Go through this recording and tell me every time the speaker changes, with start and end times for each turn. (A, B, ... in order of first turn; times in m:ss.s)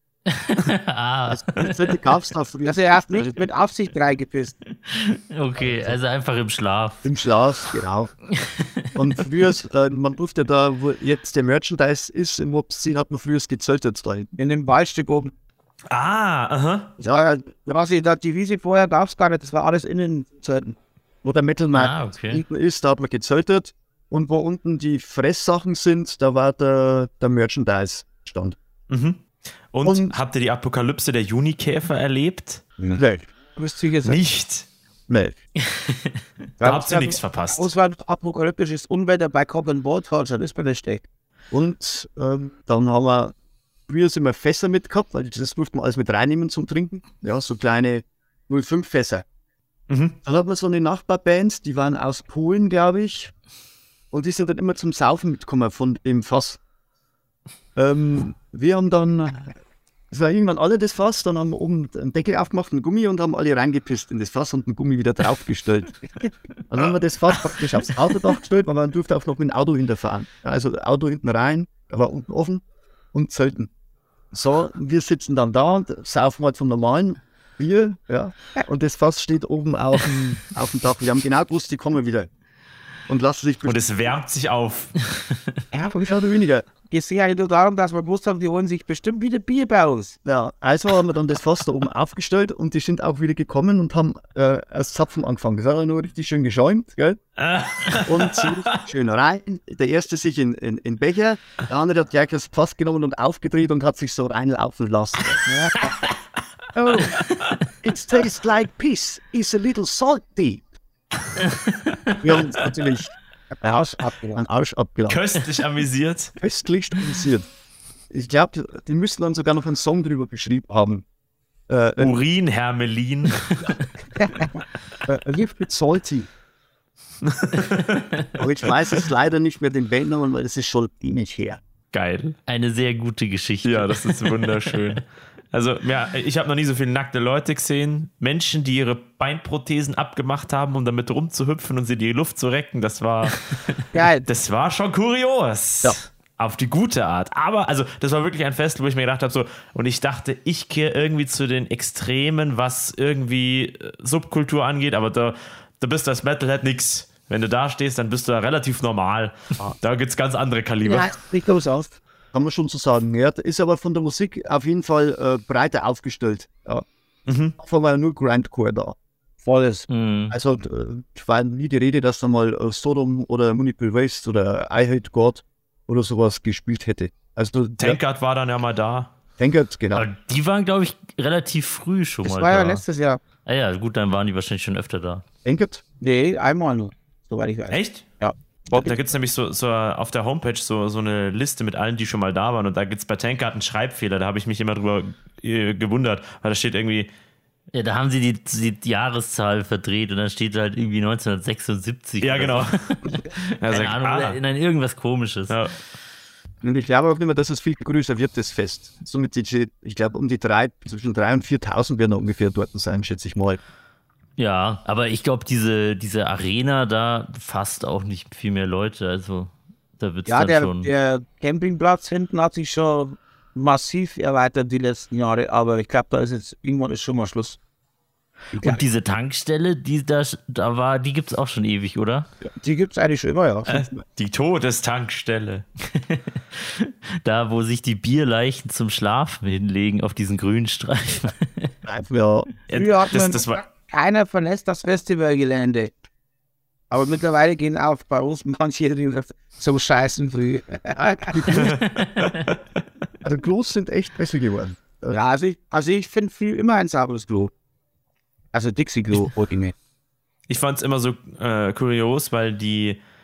0:00.3-0:01.9 A
0:01.3-0:03.0 B
0:02.6-0:04.6 C
0:04.9-0:07.1 A
0:05.6-0:06.0 C
0:07.0-0:08.1 B
0:08.4-0:08.8 A
0:08.9-0:14.3 B
0:14.4-0:15.3 C
0:15.9-0:16.9 D
0:17.0-0:20.8 C
0:21.2-0:28.6 B
0:21.7-0:22.4 A
0:28.9-0:29.2 D
0:29.7-0:32.6 D
0:29.8-0:30.1 B
0:32.8-0:34.2 C
0:33.0-0:33.3 B
0:34.0-0:34.7 D
0:35.1-0:35.4 B
0:35.7-0:36.2 A
0:36.6-0:41.0 C
0:36.6-0:37.7 D
0:41.5-0:43.3 B
0:43.9-0:49.2 B
0:49.9-0:50.2 D
0:50.2-0:53.3 B
0:54.1-0:56.6 B
0:57.8-0:59.6 B
1:00.1-1:06.0 B
1:06.7-1:13.7 B
1:14.3-1:22.3 B
1:23.1-1:23.8 B
1:23.6-1:25.0 D
1:25.7-1:26.2 C
1:26.0-1:26.7 B
1:26.9-1:30.2 C
1:30.2-1:37.2 B
1:37.4-1:38.8 D
1:38.0-1:45.4 B
1:45.5-1:45.9 C
1:46.8-1:47.1 B
1:46.8-1:47.2 C
1:47.8-1:50.7 B
1:51.4-1:52.1 A
1:52.2-1:53.1 B
1:53.6-1:54.4 C
1:54.4-1:55.3 B
1:55.1-1:56.3 D
1:56.4-1:57.5 B
1:58.1-2:01.0 B
2:01.7-2:02.1 B
2:02.0-2:03.7 D
2:04.2-2:04.6 C
2:05.1-2:06.3 B
2:07.2-2:08.2 D
2:08.4-2:11.6 B
2:11.9-2:12.4 D
2:12.5-2:14.7 A
2:13.6-2:41.1 D
2:23.9-2:24.3 C
2:40.8-2:42.0 C
2:42.3-2:46.8 B
2:47.3-2:47.6 D
2:47.6-2:49.0 B
2:49.4-2:49.9 C
2:49.9-2:50.4 A
2:50.3-2:58.0 B
2:57.8-2:59.1 D
2:59.4-3:00.1 B
2:59.9-3:02.8 A
3:02.2-3:03.2 C
3:03.4-3:05.2 A
3:05.4-3:05.8 B
3:06.0-3:09.0 C
3:07.7-3:08.0 D
3:08.7-3:17.1 D
3:17.7-3:25.6 A
3:22.2-3:23.0 D
3:23.6-3:24.4 D
3:26.6-3:33.6 B
3:34.4-3:40.9 A
3:40.3-3:47.6 C
3:48.5-3:48.8 C
3:48.6-3:52.3 A
3:52.6-3:53.9 C
3:53.7-3:55.6 D
3:55.9-4:01.7 A
4:01.8-4:02.5 B
4:02.7-4:03.6 D
4:02.7-4:05.9 C
4:06.9-4:11.8 C
4:11.3-4:11.7 B
4:11.5-4:12.6 D
4:11.9-4:12.4 A
4:13.2-4:15.2 B
4:15.1-4:17.5 C
4:18.5-4:19.7 C
4:20.5-4:23.0 D